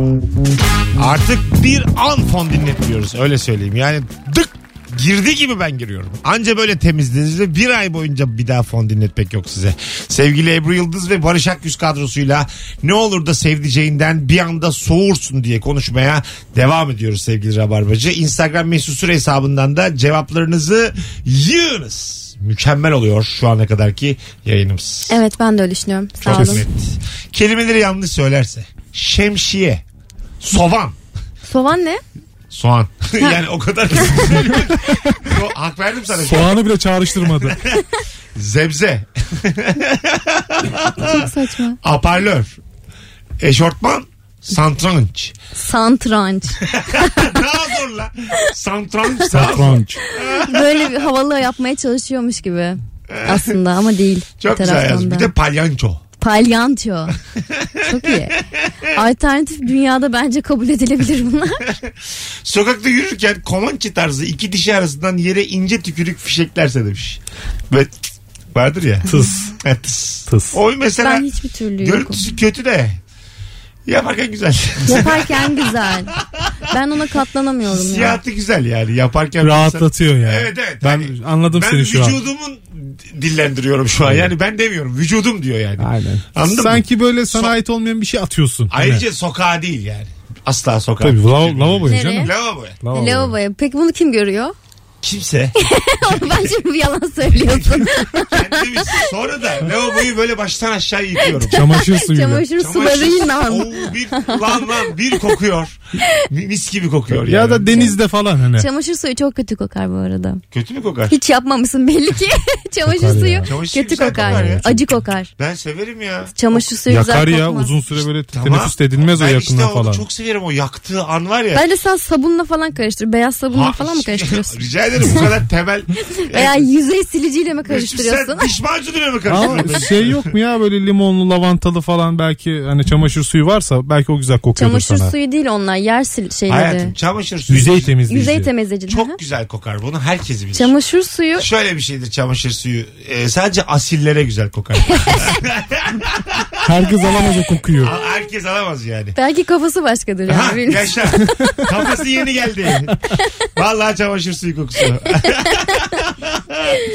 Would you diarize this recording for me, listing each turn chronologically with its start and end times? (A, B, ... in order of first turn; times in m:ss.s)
0:01.0-0:25.2 A
0:25.1-0:26.6 B
0:26.2-0:29.8 A
0:26.3-0:26.6 C
0:30.4-0:31.0 A
0:31.4-0:32.0 B
0:32.5-0:36.5 A
0:34.0-0:34.3 B
0:36.2-0:37.6 C
0:37.4-0:37.8 A
0:38.3-0:41.3 A
0:41.0-0:41.8 B
0:41.8-0:42.6 A
0:43.4-0:45.3 A
0:45.5-0:47.4 B
0:46.7-0:50.9 A
0:49.3-0:50.0 C
0:50.2-0:55.3 B
0:53.1-0:53.6 A
0:54.4-0:56.0 A
0:56.2-0:57.2 B
0:57.5-0:58.8 A
0:57.8-0:58.4 B
0:58.9-1:01.7 B
1:01.6-1:07.9 A
1:08.5-1:09.1 A
1:09.0-1:09.5 C
1:09.6-1:11.3 A
1:10.3-1:10.6 C
1:11.0-1:12.2 B
1:11.8-1:13.0 A
1:13.8-1:16.5 A
1:14.8-1:16.1 B
1:16.7-1:18.2 B
1:17.7-1:27.6 A
1:19.4-1:22.2 C
1:25.8-1:29.0 C
1:28.7-1:32.8 A
1:31.0-1:33.3 C
1:31.9-1:32.3 B
1:32.9-1:34.5 B
1:35.0-1:36.5 A
1:35.6-1:39.1 B
1:37.3-1:41.7 A
1:41.2-1:44.6 B
1:41.5-1:42.5 C
1:42.6-1:47.9 A
1:47.2-1:48.7 C
1:47.7-1:48.0 B
1:48.6-1:50.4 B
1:50.5-1:51.2 A
1:51.1-1:55.3 B
1:52.8-1:53.5 C
1:53.4-1:54.8 A
1:54.0-1:54.9 C
1:55.3-1:56.6 A
1:56.3-1:57.7 B
1:56.9-2:00.0 C
1:58.3-2:01.6 A
2:01.5-2:04.6 B
2:03.5-2:06.7 A
2:06.2-2:08.5 B
2:07.7-2:10.3 A
2:09.3-2:15.1 C
2:14.6-2:16.9 B
2:16.5-2:18.0 A
2:17.5-2:18.5 C
2:18.1-2:19.2 B
2:18.9-2:20.7 A
2:20.5-2:21.5 B
2:21.4-2:26.7 A
2:25.0-2:25.3 B
2:26.6-2:27.9 C
2:27.8-2:29.1 A
2:29.2-2:31.0 B
2:30.3-2:33.0 A
2:33.6-2:36.7 A
2:35.4-2:35.7 B